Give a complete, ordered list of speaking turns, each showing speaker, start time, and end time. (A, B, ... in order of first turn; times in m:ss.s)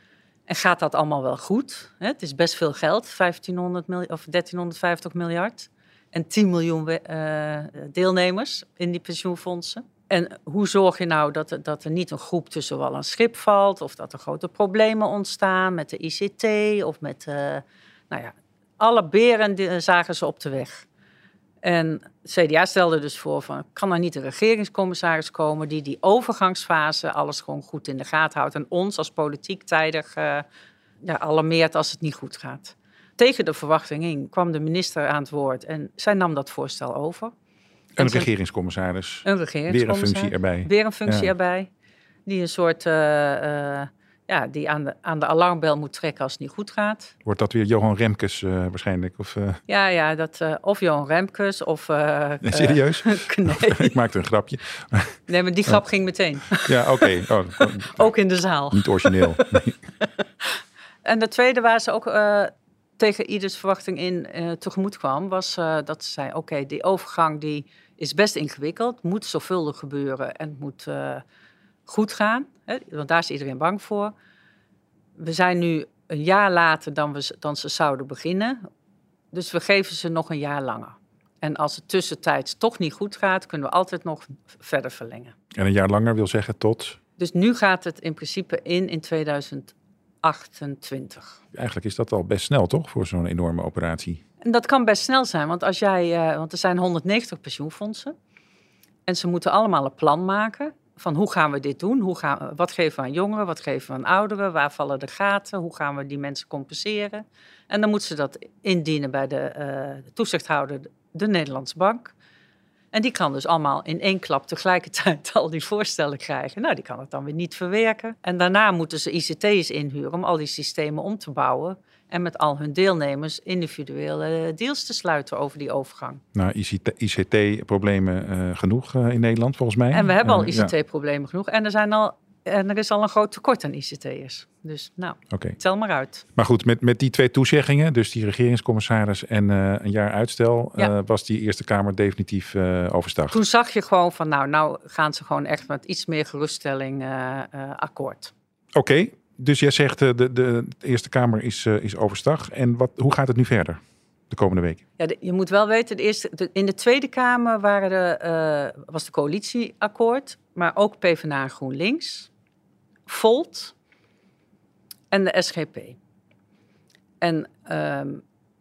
0:00.5-0:20.8 A
0:21.6-0:30.4 A
0:31.0-0:37.3 A
0:38.0-0:41.3 B
0:38.0-0:38.3 A
0:39.2-0:41.7 A
0:42.2-0:47.1 A
0:47.2-0:49.6 B
0:49.7-0:54.0 A
0:52.4-0:55.8 B
0:55.3-0:59.6 A
0:56.5-0:58.1 B
0:58.7-0:59.8 B
1:00.4-1:11.2 A
1:11.9-1:14.1 A
1:15.2-1:18.6 A
1:19.3-1:25.3 A
1:25.5-1:27.0 B
1:27.2-1:31.4 A
1:31.5-1:34.2 B
1:34.4-1:38.1 A
1:39.0-1:52.1 A
1:52.9-2:06.2 A
2:06.3-2:10.7 B
2:09.9-2:16.2 A
2:15.3-2:15.6 B
2:16.4-2:23.4 B
2:23.3-2:28.3 A
2:28.7-2:34.8 B
2:35.0-2:42.3 A
2:43.1-2:43.7 A
2:45.1-2:46.0 A
2:47.2-2:48.2 A